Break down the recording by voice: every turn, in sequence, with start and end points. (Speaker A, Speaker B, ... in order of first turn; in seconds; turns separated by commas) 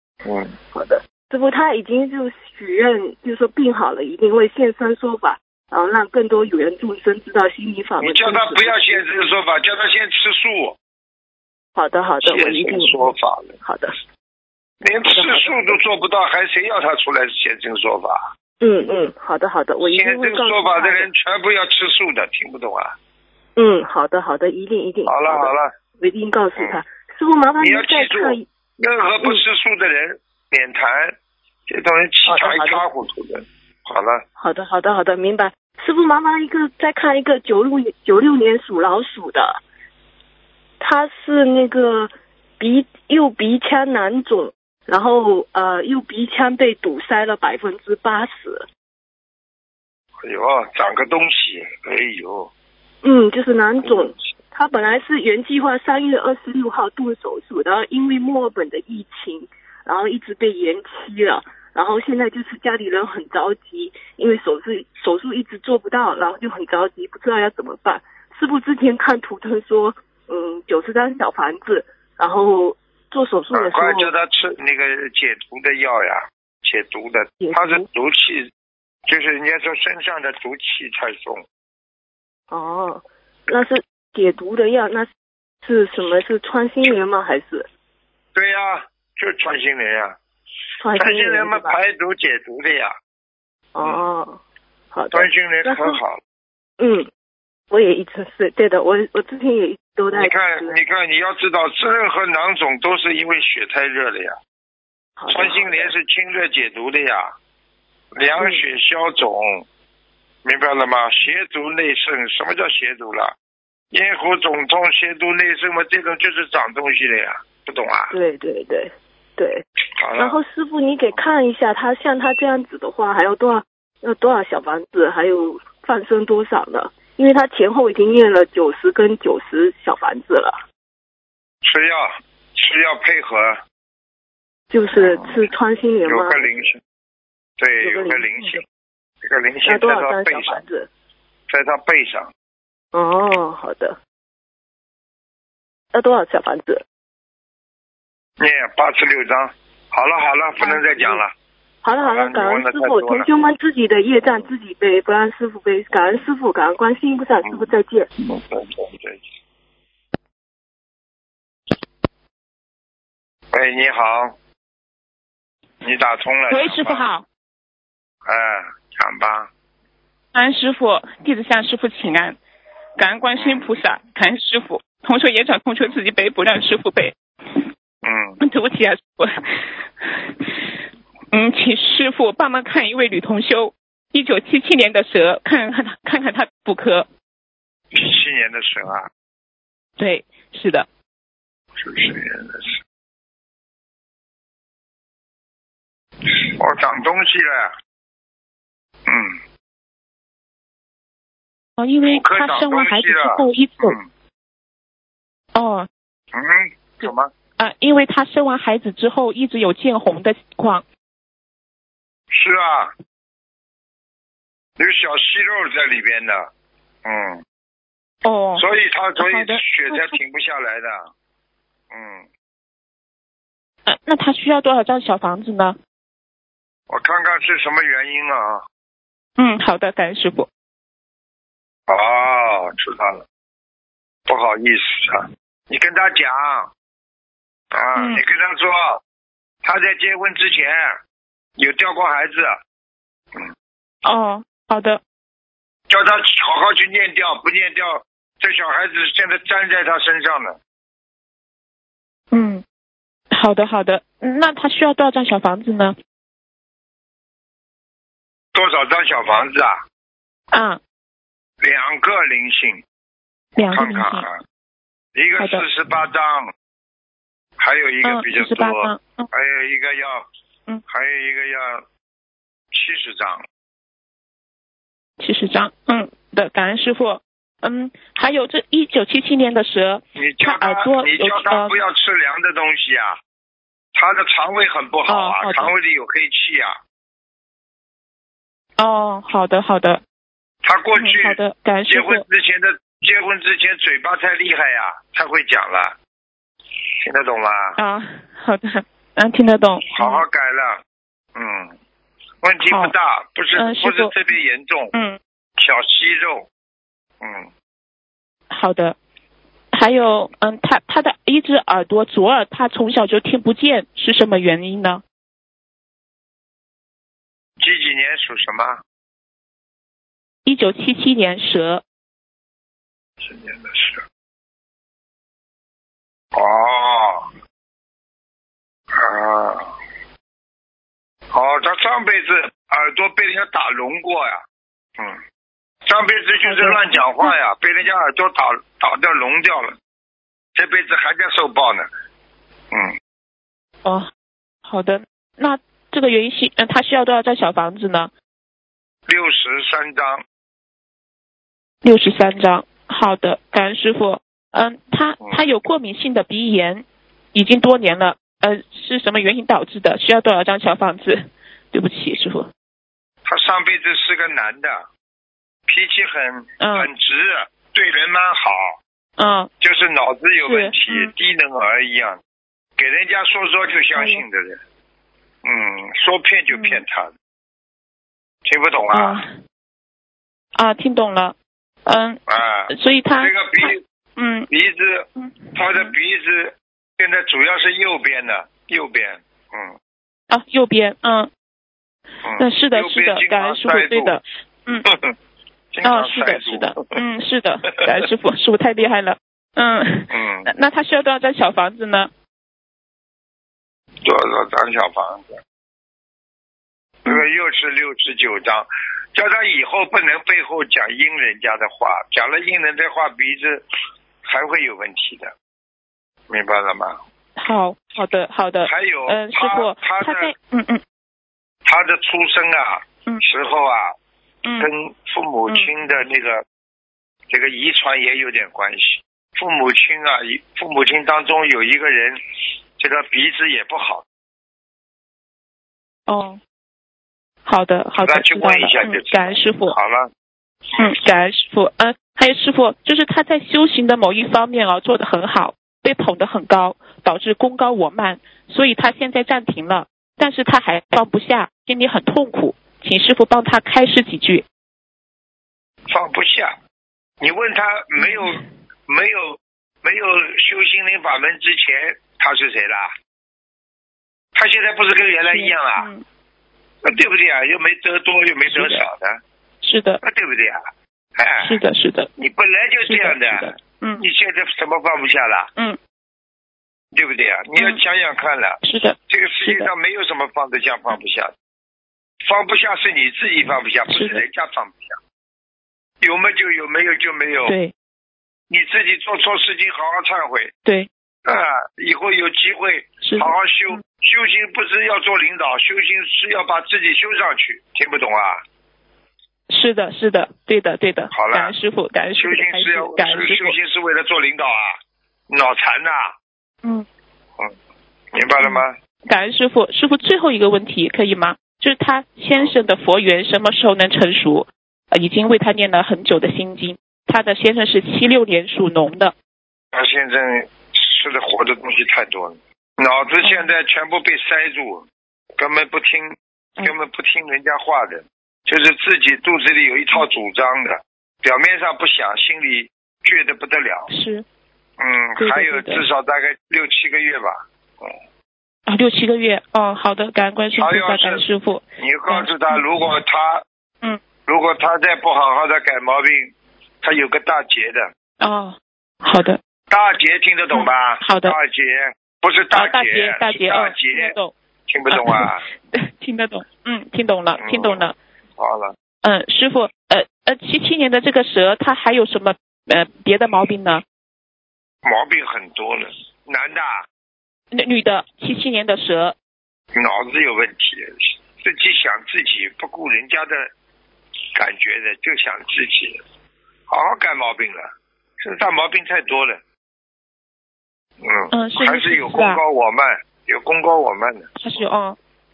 Speaker A: 0.2-0.6, Speaker B: 0.7-8.9, Speaker A: 8.0-10.8, Speaker B: 11.8-13.9, Speaker A: 12.2-13.6, Speaker A: 14.8-18.3, Speaker B: 15.1-15.8, Speaker B: 18.6-21.1, Speaker A: 19.8-22.9, Speaker B: 23.6-28.5, Speaker A: 25.1-25.7, Speaker A: 27.6-31.2, Speaker A: 31.7-34.2, Speaker B: 32.3-32.8, Speaker B: 34.4-39.6, Speaker B: 40.8-48.7, Speaker A: 50.2-52.5, Speaker B: 53.0-74.1, Speaker A: 53.8-54.1, Speaker A: 73.5-78.5, Speaker B: 77.4-77.9, Speaker A: 79.1-81.4, Speaker B: 82.5-85.1, Speaker B: 85.6-87.7, Speaker A: 88.3-90.2, Speaker B: 90.8-91.8, Speaker A: 91.0-92.9, Speaker B: 93.8-94.4, Speaker B: 94.9-96.0, Speaker A: 95.1-96.2, Speaker B: 96.8-97.1, Speaker B: 97.7-100.8, Speaker A: 100.1-104.4, Speaker B: 105.2-105.9, Speaker A: 105.3-107.3, Speaker A: 108.2-109.7, Speaker A: 110.4-113.3, Speaker A: 113.9-118.1, Speaker B: 118.1-119.6, Speaker A: 120.0-120.4, Speaker B: 120.2-130.6, Speaker A: 131.6-133.6, Speaker B: 134.7-136.7, Speaker A: 134.9-135.4, Speaker A: 136.1-136.8, Speaker A: 137.6-138.6, Speaker B: 137.8-138.6, Speaker A: 139.2-140.6, Speaker B: 139.7-140.9, Speaker A: 141.5-142.3, Speaker B: 142.9-144.0, Speaker B: 145.9-146.8, Speaker A: 148.4-151.3, Speaker B: 150.6-151.2, Speaker B: 151.8-158.1, Speaker A: 152.0-153.3, Speaker A: 154.2-154.5, Speaker A: 158.2-159.2, Speaker A: 163.5-164.3, Speaker A: 165.8-167.1, Speaker C: 166.5-167.2, Speaker A: 168.3-169.5, Speaker C: 170.3-172.4, Speaker C: 173.0-177.6, Speaker A: 173.3-173.8, Speaker A: 178.0-178.4, Speaker C: 178.4-180.7, Speaker C: 181.3-187.1, Speaker A: 187.9-189.1, Speaker C: 190.0-190.9, Speaker A: 191.8-192.8, Speaker A: 196.3-197.7, Speaker A: 199.1-199.4, Speaker C: 201.8-204.0, Speaker A: 202.1-204.1, Speaker C: 205.5-205.9, Speaker A: 206.3-207.3, Speaker C: 207.0-210.8, Speaker A: 212.3-212.9, Speaker A: 214.8-216.5, Speaker A: 217.0-217.4, Speaker C: 218.2-218.6, Speaker A: 218.6-221.1, Speaker C: 219.2-220.2, Speaker A: 221.9-222.3, Speaker C: 223.9-225.8, Speaker A: 226.9-228.6, Speaker C: 229.4-230.5, Speaker A: 231.9-233.2, Speaker A: 234.3-236.7, Speaker A: 237.7-239.0, Speaker C: 237.9-238.2, Speaker A: 239.6-241.0, Speaker A: 241.6-242.6, Speaker C: 244.0-245.0, Speaker A: 245.9-250.6, Speaker C: 252.3-252.6, Speaker C: 253.3-255.9, Speaker A: 258.5-259.8, Speaker C: 260.5-260.8, Speaker A: 261.6-262.8, Speaker C: 263.6-264.2, Speaker A: 263.7-264.4, Speaker A: 265.2-266.5, Speaker A: 267.6-270.3, Speaker C: 268.0-269.3, Speaker A: 270.9-271.8, Speaker A: 272.7-273.4, Speaker C: 275.2-281.7, Speaker A: 280.2-283.2, Speaker A: 283.9-286.8, Speaker C: 285.1-285.7, Speaker C: 288.8-290.0, Speaker A: 290.6-295.9, Speaker C: 291.0-292.2, Speaker A: 297.0-297.8, Speaker C: 297.8-300.2, Speaker A: 299.9-300.8, Speaker A: 301.4-301.7, Speaker A: 302.4-304.9, Speaker C: 302.7-302.9, Speaker C: 303.6-304.1, Speaker A: 305.6-306.5, Speaker A: 307.2-307.5, Speaker C: 308.5-309.0, Speaker C: 309.7-315.0, Speaker A: 317.6-318.8, Speaker C: 320.5-321.8, Speaker A: 323.2-324.0, Speaker A: 326.3-327.3, Speaker A: 328.9-329.8, Speaker A: 331.3-334.4, Speaker A: 335.9-339.8, Speaker C: 336.4-337.3, Speaker A: 340.6-341.9, Speaker C: 344.6-348.1, Speaker A: 349.1-350.2, Speaker C: 351.8-362.5, Speaker A: 363.2-364.9, Speaker A: 365.7-368.8, Speaker C: 366.6-366.9, Speaker C: 369.2-369.5, Speaker A: 369.6-372.2, Speaker C: 370.4-371.1, Speaker A: 372.8-374.6, Speaker C: 374.0-374.2, Speaker A: 375.4-377.1, Speaker C: 376.5-376.8, Speaker A: 378.5-379.2, Speaker C: 378.9-379.3, Speaker C: 380.6-381.4, Speaker C: 381.9-384.5, Speaker A: 382.3-383.8, Speaker A: 384.5-389.8, Speaker C: 385.2-385.9, Speaker C: 390.3-391.3, Speaker A: 392.2-394.2, Speaker C: 392.4-394.9, Speaker A: 394.9-395.1, Speaker A: 395.7-396.9, Speaker C: 395.8-402.1, Speaker A: 400.1-400.5, Speaker A: 404.0-405.4, Speaker A: 407.1-413.6, Speaker A: 414.2-415.3, Speaker A: 416.3-417.0, Speaker C: 417.4-420.8, Speaker A: 418.6-420.3, Speaker A: 421.6-423.9, Speaker A: 424.6-426.4, Speaker A: 427.3-432.2, Speaker A: 432.8-434.0, Speaker C: 436.1-436.4, Speaker C: 437.5-439.8, Speaker A: 438.0-440.1, Speaker C: 440.8-454.4, Speaker A: 455.9-456.5, Speaker A: 457.2-462.9, Speaker C: 458.0-458.4, Speaker A: 464.4-465.9, Speaker C: 465.3-466.0, Speaker A: 466.8-469.2, Speaker C: 468.5-468.8, Speaker C: 469.6-470.0, Speaker A: 470.0-470.6, Speaker A: 471.2-471.6, Speaker C: 471.4-472.1, Speaker A: 472.2-475.5, Speaker C: 472.9-474.0, Speaker A: 476.9-481.3, Speaker C: 478.6-479.7, Speaker A: 482.2-485.0, Speaker C: 483.9-484.2, Speaker A: 486.0-487.6, Speaker C: 487.5-487.7, Speaker A: 488.5-490.5, Speaker A: 491.2-498.4, Speaker C: 493.0-493.8, Speaker C: 499.5-503.5, Speaker A: 501.1-501.5, Speaker A: 502.2-506.1, Speaker A: 508.1-508.8, Speaker C: 508.4-519.1, Speaker A: 519.7-524.9, Speaker A: 525.4-533.9, Speaker C: 533.9-534.2, Speaker A: 534.8-538.0, Speaker C: 535.2-535.8, Speaker C: 538.7-542.6, Speaker A: 540.6-541.2, Speaker A: 541.8-543.4, Speaker A: 544.3-547.9, Speaker C: 548.2-549.4, Speaker A: 549.7-554.1, Speaker C: 550.5-551.4, Speaker C: 552.5-554.3, Speaker A: 554.7-555.4, Speaker C: 554.9-558.0, Speaker A: 557.4-557.9, Speaker A: 558.4-558.8, Speaker C: 559.0-563.8, Speaker A: 564.8-566.9, Speaker C: 567.5-569.1, Speaker A: 569.7-573.5, Speaker A: 574.4-576.0, Speaker A: 576.7-579.4, Speaker A: 581.0-584.6, Speaker C: 581.3-582.4, Speaker C: 584.4-585.0